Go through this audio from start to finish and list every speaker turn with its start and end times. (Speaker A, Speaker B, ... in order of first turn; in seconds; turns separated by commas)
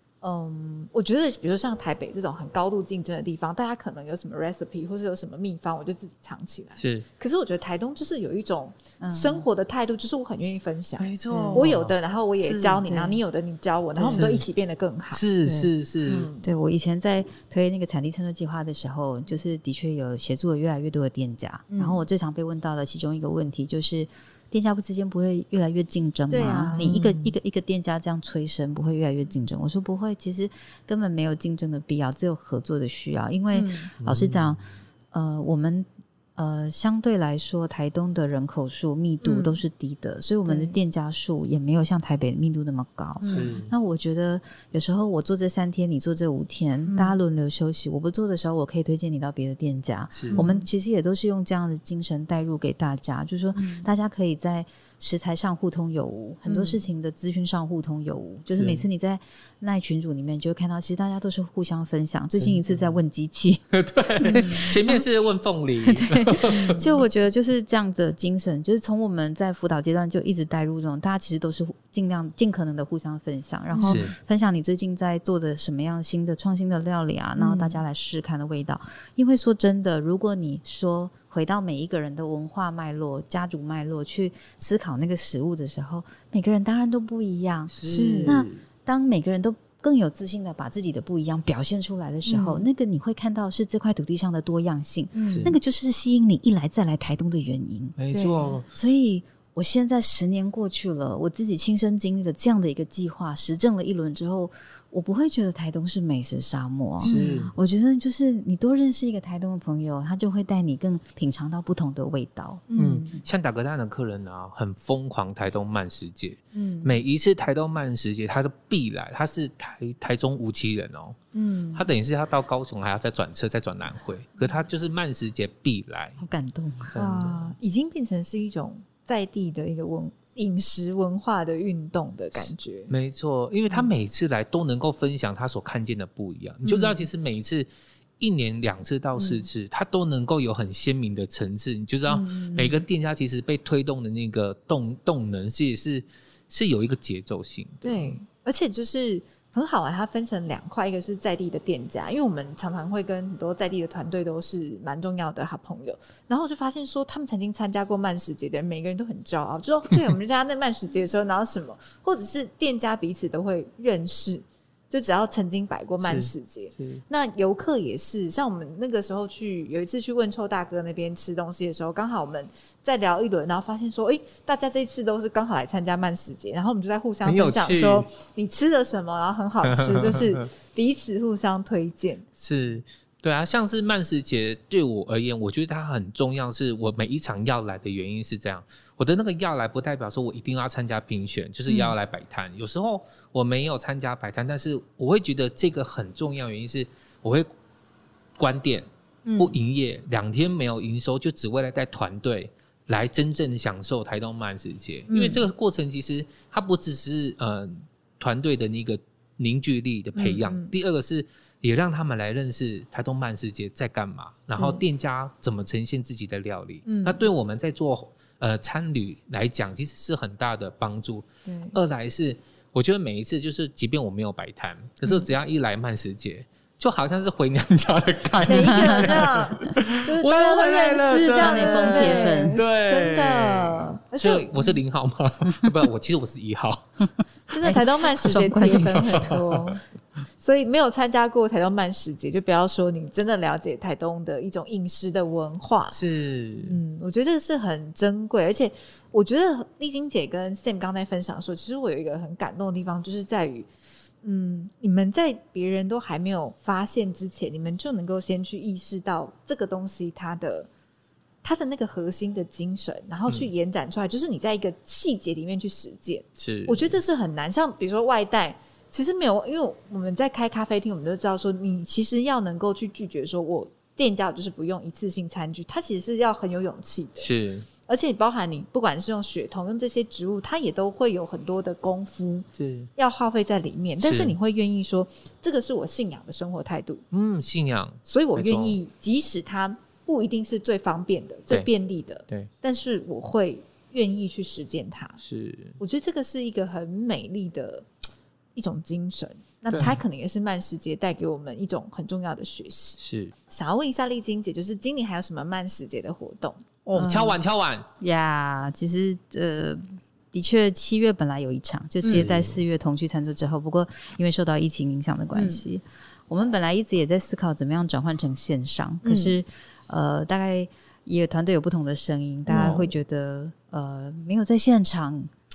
Speaker A: 0.2-15.2, Speaker B: 6.8-7.1, Speaker C: 9.0-9.5, Speaker B: 11.0-12.8, Speaker C: 11.3-11.7, Speaker C: 12.8-13.2, Speaker C: 14.0-14.3, Speaker B: 14.1-14.4, Speaker B: 15.1-16.3, Speaker C: 15.4-15.7, Speaker A: 16.1-16.5, Speaker C: 16.4-63.6, Speaker A: 21.7-22.0, Speaker A: 26.3-27.3, Speaker A: 33.5-33.9, Speaker B: 34.0-34.6, Speaker A: 39.2-39.6, Speaker A: 40.5-40.8, Speaker A: 43.2-43.5, Speaker B: 43.3-43.7, Speaker A: 46.9-47.2, Speaker B: 50.1-50.4, Speaker A: 50.3-50.7, Speaker A: 53.5-53.9, Speaker A: 56.5-56.8, Speaker B: 58.5-58.9, Speaker B: 62.4-62.8, Speaker B: 63.7-66.9, Speaker C: 64.2-65.0, Speaker A: 64.2-64.8, Speaker C: 65.8-98.0, Speaker A: 66.5-66.9, Speaker A: 73.7-74.1, Speaker B: 73.8-74.1, Speaker A: 77.4-77.8, Speaker B: 87.7-88.6, Speaker A: 87.9-88.4, Speaker A: 92.3-92.6, Speaker A: 95.1-95.5, Speaker B: 95.3-95.5, Speaker B: 98.0-98.7, Speaker A: 98.1-98.6, Speaker C: 98.7-112.7, Speaker B: 107.0-107.5, Speaker A: 107.0-107.5, Speaker A: 112.7-113.2, Speaker B: 112.8-121.2, Speaker A: 116.5-117.0, Speaker A: 121.3-121.9, Speaker B: 121.7-126.2, Speaker C: 126.2-127.0, Speaker B: 126.9-127.5, Speaker A: 127.0-132.9, Speaker B: 132.9-137.7, Speaker A: 136.6-137.1, Speaker B: 138.2-148.2, Speaker A: 139.2-139.5, Speaker A: 142.1-142.9, Speaker A: 147.8-182.3, Speaker B: 166.0-167.0, Speaker B: 177.2-178.1, Speaker B: 179.6-180.5, Speaker B: 182.4-197.5, Speaker A: 191.7-191.9, Speaker B: 198.4-198.9, Speaker A: 199.3-199.6, Speaker B: 199.4-237.1, Speaker A: 205.1-205.5, Speaker A: 210.2-210.7, Speaker A: 214.5-214.8, Speaker A: 216.9-217.3, Speaker A: 221.5-221.8, Speaker A: 228.5-234.8, Speaker C: 228.6-229.2, Speaker C: 231.0-232.6, Speaker C: 235.5-235.8, Speaker A: 237.5-239.8, Speaker C: 237.6-239.2, Speaker B: 239.1-239.4, Speaker A: 240.4-246.0, Speaker B: 245.9-246.8, Speaker A: 246.6-253.7, Speaker A: 254.2-260.7, Speaker A: 261.4-277.3, Speaker B: 266.4-266.9, Speaker B: 277.2-277.7, Speaker A: 277.9-287.0, Speaker B: 282.6-282.9, Speaker B: 284.0-284.4, Speaker B: 287.1-288.8, Speaker A: 288.1-295.2, Speaker B: 295.2-295.8, Speaker A: 295.8-297.9, Speaker A: 298.6-307.3, Speaker B: 299.7-300.0, Speaker B: 303.0-303.3, Speaker B: 306.9-307.9, Speaker C: 306.9-307.4, Speaker C: 308.0-325.3, Speaker A: 312.0-312.3, Speaker B: 312.1-312.6, Speaker A: 315.3-315.6, Speaker A: 319.0-319.4, Speaker A: 322.5-322.8, Speaker B: 322.5-322.9